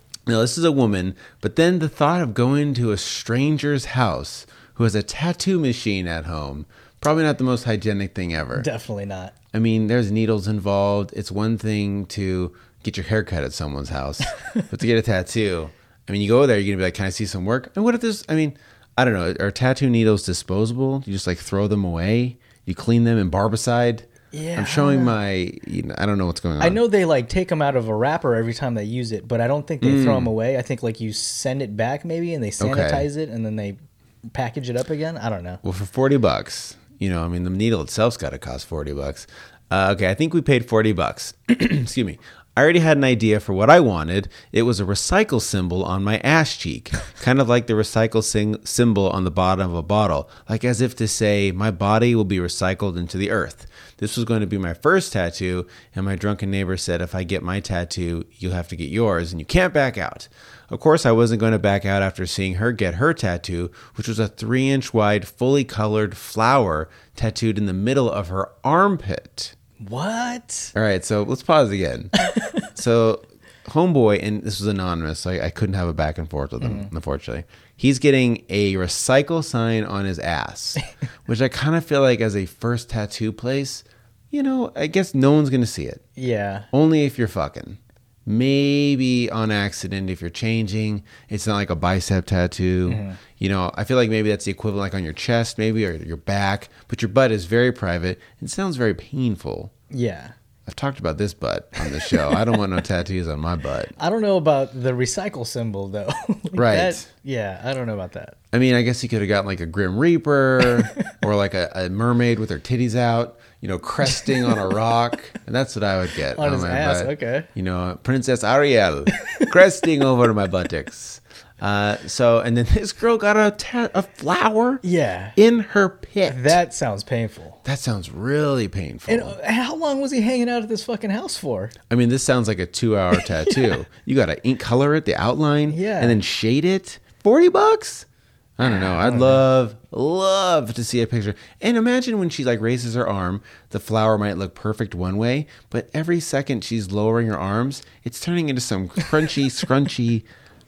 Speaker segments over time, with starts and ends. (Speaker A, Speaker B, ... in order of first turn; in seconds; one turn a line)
Speaker A: 0.3-8.7
Speaker B: 8.6-9.3
Speaker A: 9.5-26.8
Speaker B: 24.3-25.1
Speaker B: 26.6-35.6
Speaker A: 29.8-30.3
Speaker A: 32.6-33.1
Speaker A: 35.6-69.5
Speaker B: 69.8-70.7
Speaker A: 70.7-72.1
Speaker B: 72.2-72.6
Speaker A: 72.7-86.0
Speaker B: 76.6-76.9
Speaker B: 86.2-86.7
Speaker A: 86.7-99.7
Speaker B: 92.9-93.2
Speaker B: 99.9-100.3
Speaker A: 100.7-103.9
Speaker B: 101.8-102.6
Speaker B: 104.0-108.4
Speaker A: 106.5-107.1
Speaker A: 108.5-124.8
Speaker B: 110.6-110.9
Speaker B: 114.1-114.7
Speaker B: 116.3-117.5
Speaker B: 119.2-119.5
Speaker B: 124.8-125.4
Speaker A: 125.4-126.6
Speaker B: 126.3-127.6
Speaker A: 127.6-129.4
Speaker B: 129.1-131.8
Speaker A: 131.9-138.1
Speaker B: 133.2-133.8
Speaker B: 135.7-136.2
Speaker A: 138.6-150.3
Speaker B: 138.6-139.4